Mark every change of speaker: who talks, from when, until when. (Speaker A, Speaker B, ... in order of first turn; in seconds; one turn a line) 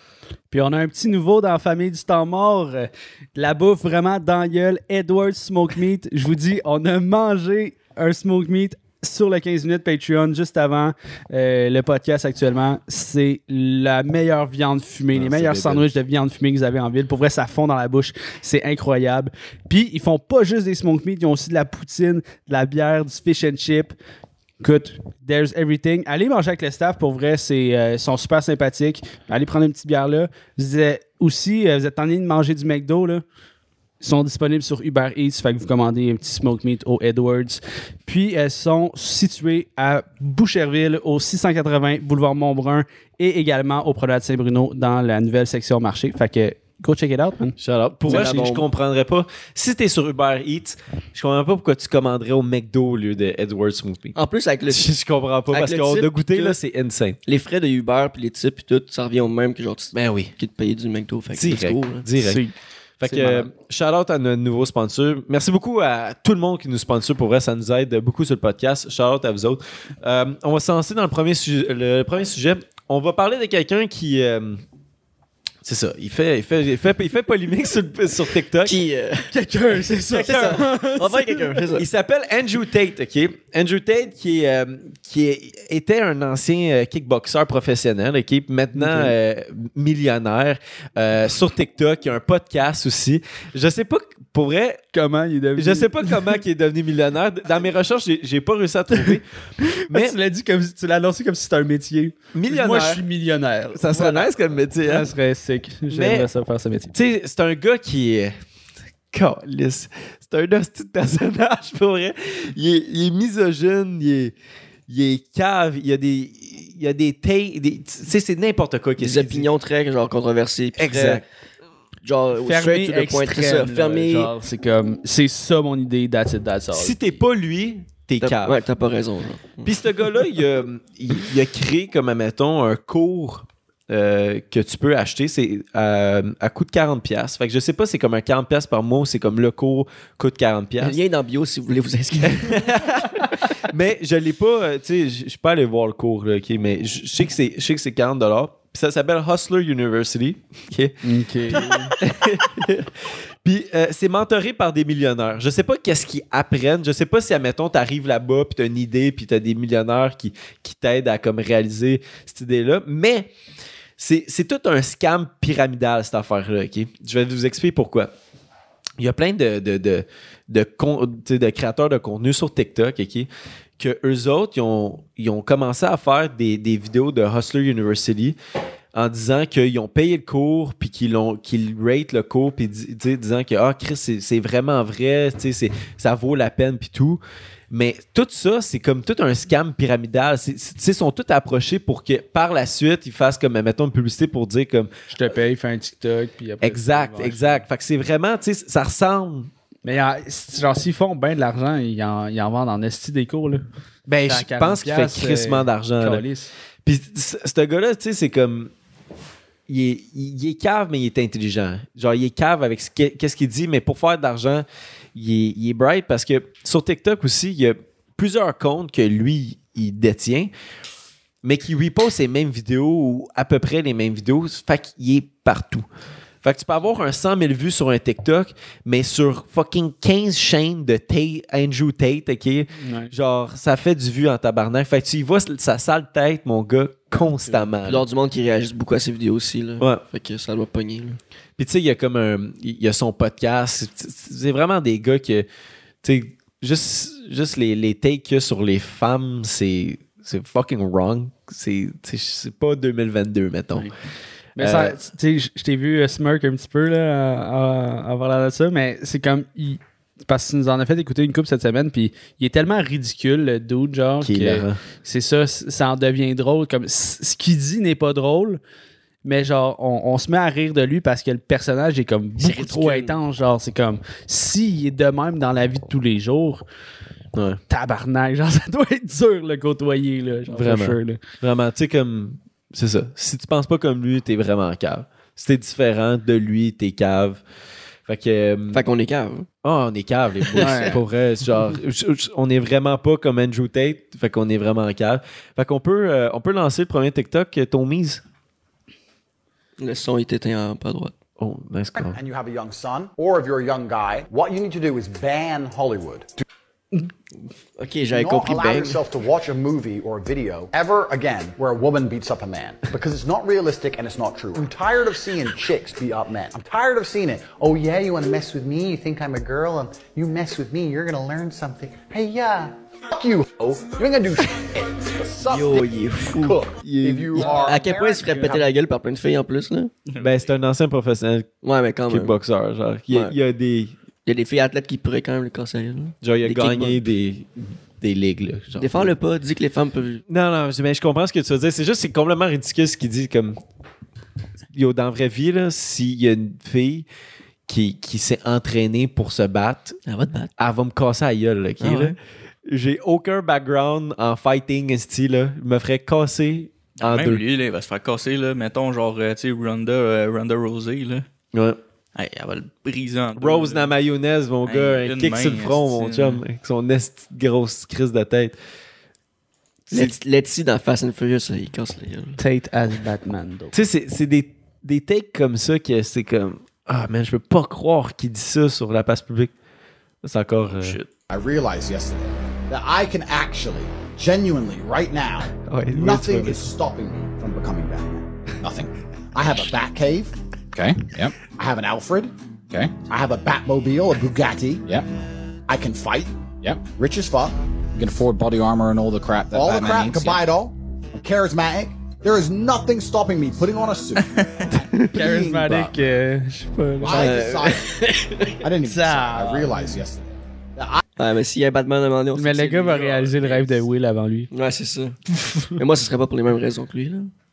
Speaker A: 0.5-23.9
Speaker B: 15.1-15.9
Speaker A: 24.6-33.2
Speaker A: 34.0-48.4
Speaker B: 47.6-54.2
Speaker C: 48.1-48.6
Speaker C: 54.1-54.9
Speaker B: 54.7-57.2
Speaker C: 55.5-56.5
Speaker C: 57.2-62.1
Speaker B: 59.9-60.3
Speaker B: 61.4-62.4
Speaker A: 62.1-63.5
Speaker B: 63.0-74.6
Speaker B: 75.6-78.8
Speaker C: 78.6-79.3
Speaker A: 79.3-81.6
Speaker B: 80.1-80.6
Speaker C: 80.2-81.8
Speaker B: 81.7-94.8
Speaker A: 88.8-89.1
Speaker A: 94.9-96.4
Speaker B: 95.5-99.2
Speaker A: 99.0-104.3
Speaker B: 99.9-100.2
Speaker B: 102.3-103.0
Speaker B: 103.7-105.1
Speaker A: 104.8-106.9
Speaker B: 105.9-106.3
Speaker B: 106.9-108.3
Speaker B: 109.1-114.3
Speaker B: 114.9-119.5
Speaker C: 119.0-121.2
Speaker B: 120.8-121.2
Speaker C: 122.0-124.3
Speaker A: 122.4-127.0
Speaker B: 126.7-128.6
Speaker C: 128.2-129.7
Speaker B: 129.6-141.0
Speaker C: 140.8-142.7
Speaker B: 142.2-150.9
Speaker A: 151.0-151.9
Speaker B: 151.5-163.3
Speaker B: 164.0-168.1
Speaker B: 169.0-178.4
Speaker B: 178.9-194.9
Speaker A: 195.1-197.6
Speaker B: 196.6-199.5
Speaker A: 199.8-203.6
Speaker B: 204.1-206.2
Speaker A: 204.2-206.5
Speaker B: 206.8-208.7
Speaker B: 209.7-220.5
Speaker B: 221.4-225.9
Speaker B: 226.4-238.0
Speaker A: 232.8-233.1
Speaker C: 237.8-241.2
Speaker B: 241.6-245.5
Speaker B: 246.0-253.9
Speaker A: 254.6-268.6
Speaker B: 254.6-254.9
Speaker B: 264.2-264.8
Speaker A: 269.2-276.6
Speaker C: 272.4-273.1
Speaker B: 277.3-277.6
Speaker A: 277.7-281.2
Speaker B: 280.5-287.4
Speaker B: 288.1-288.8
Speaker C: 288.7-289.5
Speaker B: 289.6-298.2
Speaker C: 290.5-290.9
Speaker A: 290.6-291.0
Speaker C: 299.8-301.2
Speaker B: 301.4-302.2
Speaker D: 302.0-306.4
Speaker C: 307.8-309.0
Speaker D: 308.1-328.6
Speaker C: 325.5-326.6
Speaker B: 326.8-327.6
Speaker C: 327.3-329.9
Speaker B: 330.2-331.5
Speaker C: 331.6-332.3
Speaker B: 332.1-334.0
Speaker C: 334.2-337.0
Speaker B: 336.2-339.1
Speaker C: 338.8-340.2
Speaker B: 340.3-343.6
Speaker B: 344.7-347.1
Speaker B: 347.7-350.0
Speaker C: 350.1-350.5
Speaker B: 350.6-357.4
Speaker C: 351.8-352.1
Speaker E: 357.0-361.2
Speaker B: 361.5-361.8
Speaker E: 362.1-363.9
Speaker B: 363.3-368.6
Speaker E: 364.6-366.4
Speaker C: 369.9-372.4
Speaker A: 372.4-373.7
Speaker B: 373.7-379.5
Speaker B: 380.2-381.0
Speaker E: 380.8-381.1
Speaker D: 381.3-388.3
Speaker B: 385.6-386.7
Speaker F: 388.6-388.9
Speaker D: 389.3-390.3
Speaker F: 390.7-391.4
Speaker D: 391.4-392.3
Speaker F: 392.7-393.0
Speaker D: 393.0-394.9
Speaker D: 395.7-396.3
Speaker F: 396.6-397.1
Speaker D: 397.0-397.5
Speaker F: 397.9-400.4
Speaker D: 399.5-405.7
Speaker A: 405.0-407.3
Speaker D: 407.0-407.9
Speaker C: 407.1-408.6
Speaker D: 408.6-411.0
Speaker A: 408.8-410.0
Speaker C: 411.2-413.1
Speaker A: 412.3-414.5
Speaker E: 412.9-413.8
Speaker C: 414.5-415.2
Speaker C: 415.7-417.3